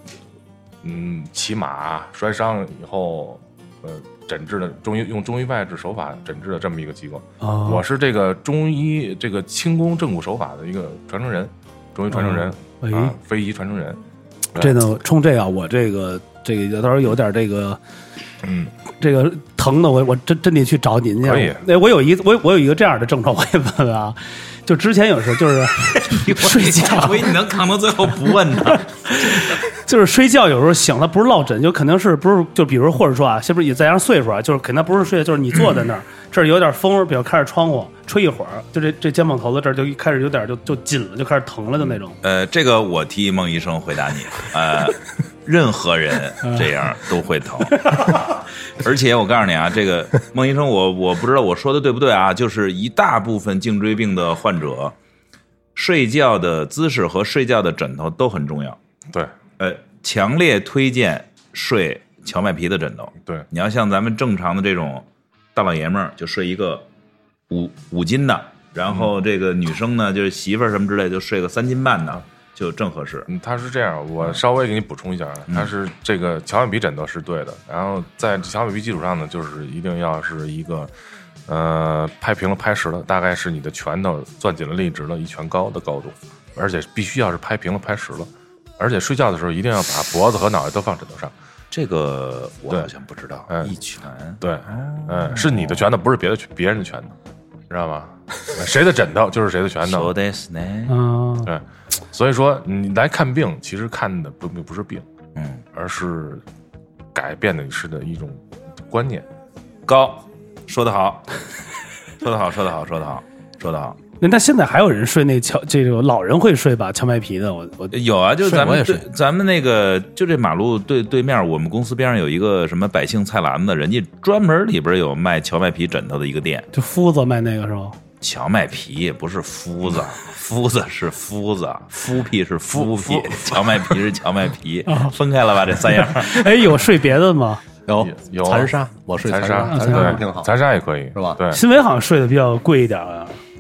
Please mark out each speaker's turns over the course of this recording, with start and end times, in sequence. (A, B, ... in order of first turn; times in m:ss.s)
0:00.8-0:14.0 A
0:07.4-0:07.8 B
0:12.1-0:13.2 B
0:14.6-0:17.8 B
0:18.4-0:18.7 A
0:19.0-0:27.3 B
0:21.2-0:21.6 A
0:26.0-0:29.5 C
0:28.7-0:42.2 B
0:42.2-0:55.0 C
0:55.8-0:58.8 C
0:59.6-1:06.9 C
1:07.5-1:13.3 C
1:13.3-1:20.9 A
1:21.5-1:31.3 A
1:31.7-1:35.9 C
1:33.5-1:33.8 A
1:34.4-1:37.2 A
1:37.7-1:40.1 A
1:39.8-1:41.0 C
1:40.9-1:41.5 B
1:41.4-1:45.1 A
1:45.4-1:45.6 C
1:45.7-1:46.4 A
1:47.1-1:49.3 A
1:49.9-1:51.4 C
1:52.2-1:54.0 C
1:54.2-1:58.0 B
1:57.9-2:06.7 C
1:58.4-1:59.0 D
2:06.7-2:08.0 B
2:08.2-2:16.5 C
2:12.7-2:13.5 A
2:14.9-2:15.2 B
2:15.9-2:17.6 B
2:17.9-2:20.5 D
2:18.0-2:21.6 A
2:19.7-2:20.2 B
2:21.1-2:21.4 D
2:21.5-2:23.4 B